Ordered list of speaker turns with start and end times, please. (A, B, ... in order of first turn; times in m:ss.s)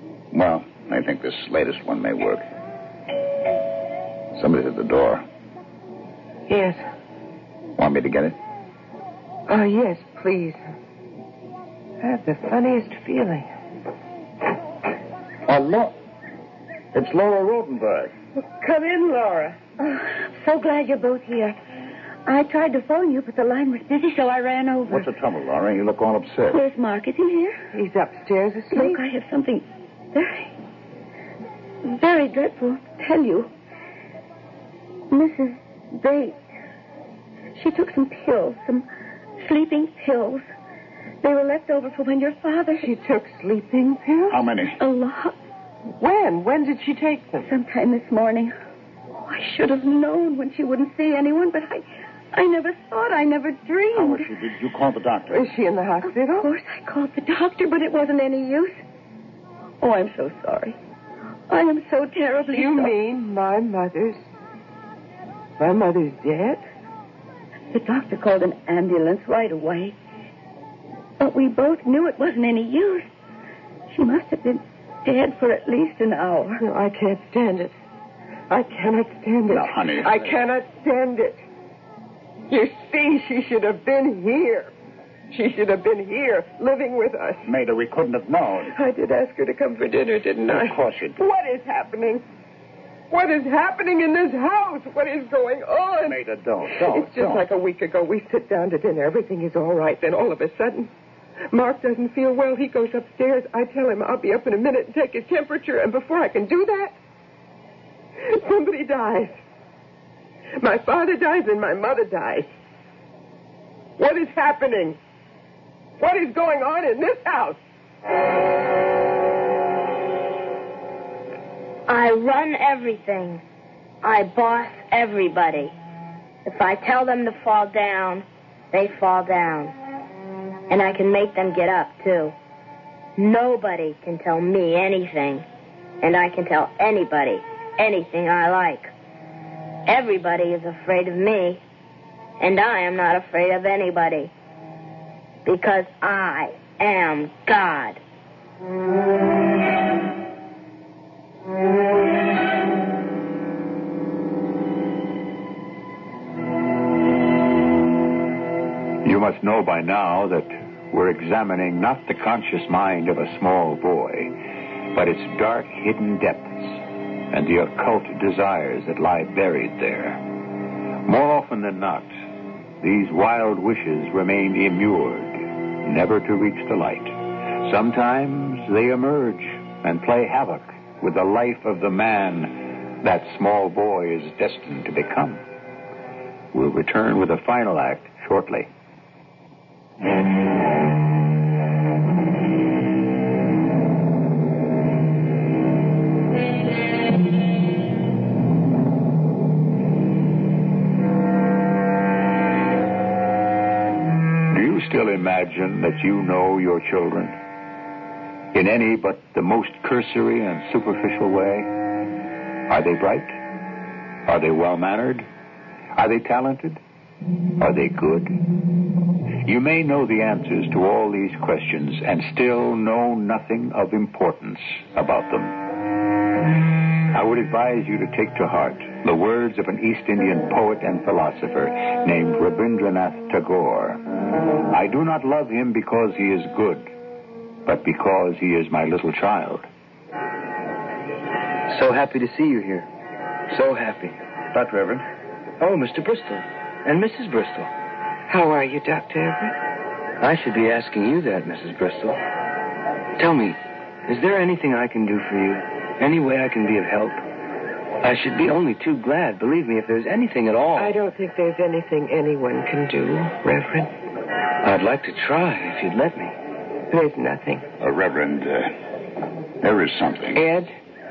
0:00.3-0:02.4 A
0:04.4-0:05.2 A
0:06.5-0:06.8 B
0:07.8-0:08.4 A
0:09.5-0:10.6 B
0:12.0-0:13.5 B
0:15.5-0:15.9 A
0:16.9-0:18.1 A
0:18.4-0:19.6 B
0:19.8-0:21.6 C
0:22.2-0:25.1 C
0:24.9-0:26.6 A
0:26.5-0:27.6 C
0:27.7-0:29.0 B
0:28.7-0:30.5 C
0:31.8-0:33.5 C
0:35.1-0:36.4 C
0:37.5-0:38.9 C
0:39.4-0:40.4 C
0:41.2-0:42.9 C
0:42.8-0:44.4 B
0:44.3-0:44.8 A
0:44.8-0:45.4 C
0:46.0-0:47.5 B
0:47.4-0:48.5 C
0:49.2-0:54.2 C
0:53.9-0:55.5 A
0:55.3-0:56.5 B
0:56.3-0:58.8 C
0:59.8-1:00.8 C
1:01.5-1:02.9 C
1:02.5-1:04.2 B
1:05.6-1:06.6 B
1:07.7-1:09.9 C
1:11.2-1:13.1 C
1:13.9-1:16.6 C
1:16.6-1:17.7 B
1:18.5-1:21.4 B
1:19.5-1:20.4 A
1:22.5-1:24.7 B
1:25.3-1:27.4 B
1:27.4-1:28.7 A
1:28.7-1:32.2 B
1:30.5-1:31.2 A
1:33.1-1:36.2 B
1:36.0-1:37.4 A
1:36.8-1:40.9 B
1:41.5-1:47.0 B
1:48.2-1:49.4 B
1:50.6-1:52.5 B
1:54.0-1:55.0 B
1:56.0-1:57.6 B
2:01.9-2:03.4 D
2:04.0-2:05.7 D
2:06.4-2:09.7 D
2:10.7-2:12.4 D
2:13.2-2:15.4 D
2:16.0-2:18.9 D
2:19.9-2:21.6 D
2:22.4-2:24.3 D
2:25.4-2:28.0 D
2:39.0-2:44.4 E
2:44.9-2:46.8 E
2:47.3-2:50.2 E
2:51.0-2:52.1 E
2:52.8-3:05.4 E
3:06.5-3:08.7 E
3:24.5-3:27.4 E
3:28.5-3:31.7 E
3:32.7-3:33.4 E
3:34.2-3:35.2 E
3:35.9-3:36.8 E
3:37.6-3:38.4 E
3:39.4-3:45.6 E
3:47.1-3:54.0 E
3:54.7-3:56.9 E
3:57.6-3:59.6 E
4:01.7-4:02.9 F
4:03.5-4:04.2 F
4:04.5-4:05.0 A
4:05.6-4:07.7 F
4:08.3-4:09.5 B
4:10.2-4:12.2 F
4:13.2-4:17.2 F
4:18.0-4:20.9 F
4:20.8-4:23.9 B
4:24.6-4:26.4 F
4:26.9-4:27.6 B
4:27.8-4:28.8 A
4:29.6-4:30.4 A
4:30.4-4:30.7 B